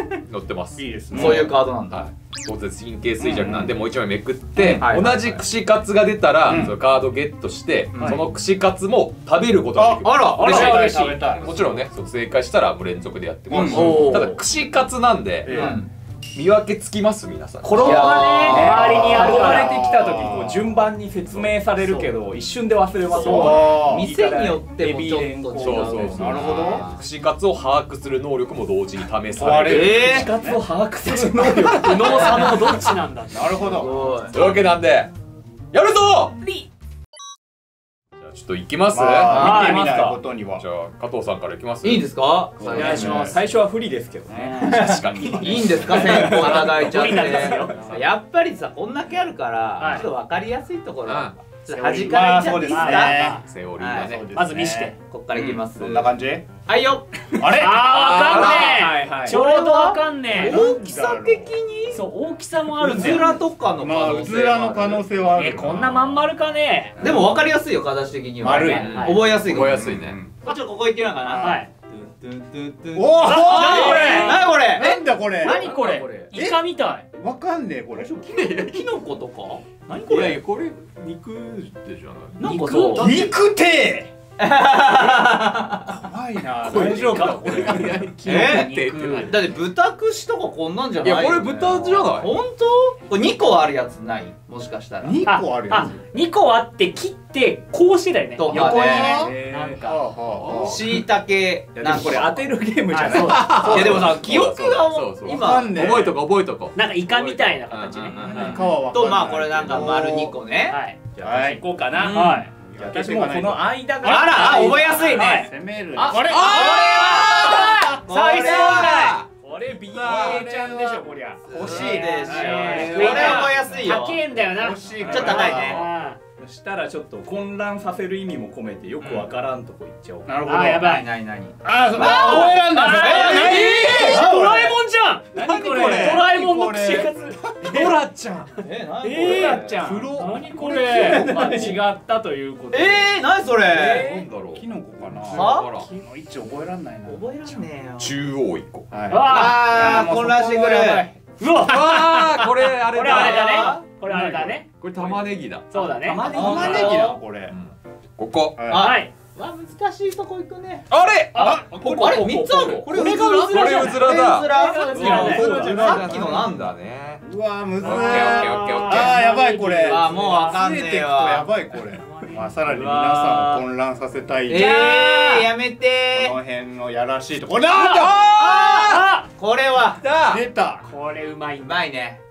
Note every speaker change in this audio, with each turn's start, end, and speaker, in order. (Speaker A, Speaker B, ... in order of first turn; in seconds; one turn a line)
Speaker A: 0.3-15.7
Speaker B: 0.8-1.5
Speaker C: 1.1-2.0
Speaker D: 1.1-1.4
Speaker C: 3.2-3.7
Speaker C: 4.6-5.4
Speaker B: 6.5-6.7
Speaker C: 7.9-8.2
Speaker B: 9.7-11.6
Speaker C: 10.0-10.8
Speaker E: 10.3-11.2
Speaker C: 13.5-14.4
Speaker B: 13.7-14.1
Speaker E: 13.7-14.2
Speaker B: 15.4-15.8
Speaker C: 15.5-15.9
Speaker A: 16.3-18.1
Speaker E: 17.6-19.8
Speaker D: 17.8-26.2
Speaker C: 17.8-18.7
Speaker B: 18.4-20.7
Speaker C: 21.8-22.1
Speaker C: 23.1-27.1
Speaker B: 23.1-24.1
Speaker E: 23.2-23.7
Speaker A: 25.6-30.2
Speaker B: 26.1-26.8
Speaker B: 29.4-30.6
Speaker C: 29.5-30.3
Speaker D: 29.5-32.5
Speaker A: 31.4-32.9
Speaker E: 31.7-34.5
Speaker B: 33.3-33.9
Speaker C: 33.7-34.4
Speaker A: 34.3-35.1
Speaker A: 35.7-36.3
Speaker E: 36.4-36.7
Speaker A: 38.2-39.3
Speaker B: 38.9-40.6
Speaker D: 39.3-40.2
Speaker C: 39.3-39.7
Speaker E: 39.3-39.8
Speaker A: 40.6-42.1
Speaker C: 41.8-43.2
Speaker B: 42.6-43.3
Speaker D: 42.6-44.7
Speaker B: 44.3-44.8
Speaker C: 44.6-54.1
Speaker A: 44.6-48.0
Speaker D: 45.3-46.7
Speaker E: 46.4-47.8
Speaker E: 49.8-50.1
Speaker A: 51.0-51.4
Speaker E: 51.7-53.4
Speaker B: 51.7-53.4
Speaker A: 53.3-54.4
Speaker B: 53.9-54.9
Speaker E: 54.3-54.9
Speaker C: 55.1-56.1
Speaker A: 55.3-55.6
Speaker B: 55.7-56.5
Speaker C: 56.6-57.5
Speaker B: 57.3-58.3
Speaker E: 57.5-60.6
Speaker A: 57.8-58.9
Speaker D: 58.5-59.4
Speaker C: 59.2-62.0
Speaker B: 60.3-61.5
Speaker E: 61.9-63.4
Speaker C: 62.8-65.0
Speaker B: 62.9-63.2
Speaker D: 63.0-63.3
Speaker B: 63.8-66.1
Speaker E: 65.3-67.0
Speaker D: 67.0-67.3
Speaker C: 67.0-76.3
Speaker B: 68.4-70.4
Speaker E: 68.5-69.3
Speaker A: 68.6-70.2
Speaker B: 71.3-71.6
Speaker E: 71.3-71.7
Speaker B: 72.9-75.8
Speaker E: 73.2-77.0
Speaker A: 75.6-76.3
Speaker B: 76.3-76.6
Speaker B: 77.1-78.5
Speaker A: 78.2-79.0
Speaker C: 78.5-80.4
Speaker A: 80.0-82.4
Speaker C: 82.4-83.3
Speaker E: 82.4-83.2
Speaker B: 82.9-84.1
Speaker C: 84.4-86.0
Speaker B: 85.9-87.9
Speaker A: 86.6-89.6
Speaker E: 86.7-89.3
Speaker D: 86.8-87.8
Speaker C: 88.2-88.7
Speaker C: 89.2-95.2
Speaker A: 91.0-92.3
Speaker B: 95.0-96.0
Speaker E: 95.2-100.0
Speaker C: 98.4-99.2
Speaker B: 98.5-100.8
Speaker D: 99.0-99.8
Speaker A: 100.4-100.8
Speaker C: 100.5-106.1
Speaker D: 101.7-104.1
Speaker E: 102.9-104.0
Speaker A: 103.1-108.6
Speaker B: 105.2-106.2
Speaker E: 106.7-108.5
Speaker C: 108.1-111.5
Speaker B: 108.3-110.3
Speaker E: 110.7-111.0
Speaker B: 111.2-111.6
Speaker D: 111.3-115.2
Speaker A: 112.0-112.3
Speaker E: 112.1-112.5
Speaker B: 112.6-117.8
Speaker C: 114.0-119.2
Speaker E: 114.0-119.2
Speaker A: 116.1-117.9
Speaker D: 119.4-121.7
Speaker A: 120.0-120.4
Speaker B: 120.0-123.8
Speaker C: 121.5-124.2
Speaker E: 121.6-126.2
Speaker D: 122.3-123.3
Speaker A: 122.8-123.6
Speaker B: 124.5-125.8
Speaker D: 125.0-125.5
Speaker C: 125.1-125.8
Speaker D: 126.4-130.3
Speaker C: 129.0-129.3
Speaker B: 130.3-131.0
Speaker E: 130.4-131.1
Speaker C: 130.8-134.8
Speaker B: 131.6-134.3
Speaker E: 131.9-138.0
Speaker D: 135.3-136.3
Speaker B: 135.3-137.7
Speaker A: 137.6-138.5
Speaker C: 138.6-139.8
Speaker D: 139.0-140.1
Speaker E: 139.2-141.7
Speaker B: 139.7-141.7
Speaker D: 140.8-144.2
Speaker C: 141.3-141.8
Speaker C: 142.7-144.1
Speaker A: 143.8-145.9
Speaker B: 144.5-147.7
Speaker C: 145.3-145.7
Speaker E: 145.7-146.1
Speaker C: 147.1-148.2
Speaker A: 148.0-148.9
Speaker B: 148.9-151.2
Speaker E: 149.1-150.1
Speaker C: 149.2-151.1
Speaker E: 151.4-154.6
Speaker A: 151.6-153.8
Speaker C: 153.0-153.8
Speaker B: 154.0-154.6
Speaker A: 154.7-155.7
Speaker E: 155.7-157.0
Speaker D: 155.8-157.1
Speaker B: 156.1-157.5
Speaker C: 156.2-157.2
Speaker A: 156.4-156.9
Speaker A: 157.5-158.7
Speaker B: 158.6-158.9
Speaker C: 158.7-160.9
Speaker E: 158.7-159.1
Speaker A: 160.9-167.2
Speaker E: 161.3-161.7
Speaker B: 161.3-163.6
Speaker D: 161.8-162.7
Speaker C: 161.9-166.8
Speaker E: 163.5-165.6
Speaker D: 164.8-166.1
Speaker B: 164.9-166.6
Speaker B: 167.2-174.9
Speaker A: 167.8-169.2
Speaker E: 167.8-170.6
Speaker C: 169.8-171.5
Speaker E: 171.9-172.5
Speaker D: 172.6-173.6
Speaker C: 174.5-176.4
Speaker E: 174.5-175.5
Speaker B: 176.1-178.2
Speaker E: 177.7-179.3
Speaker A: 177.7-179.1
Speaker C: 178.3-180.1
Speaker A: 179.9-180.4
Speaker B: 180.2-180.8
Speaker E: 180.8-181.9
Speaker C: 181.6-182.2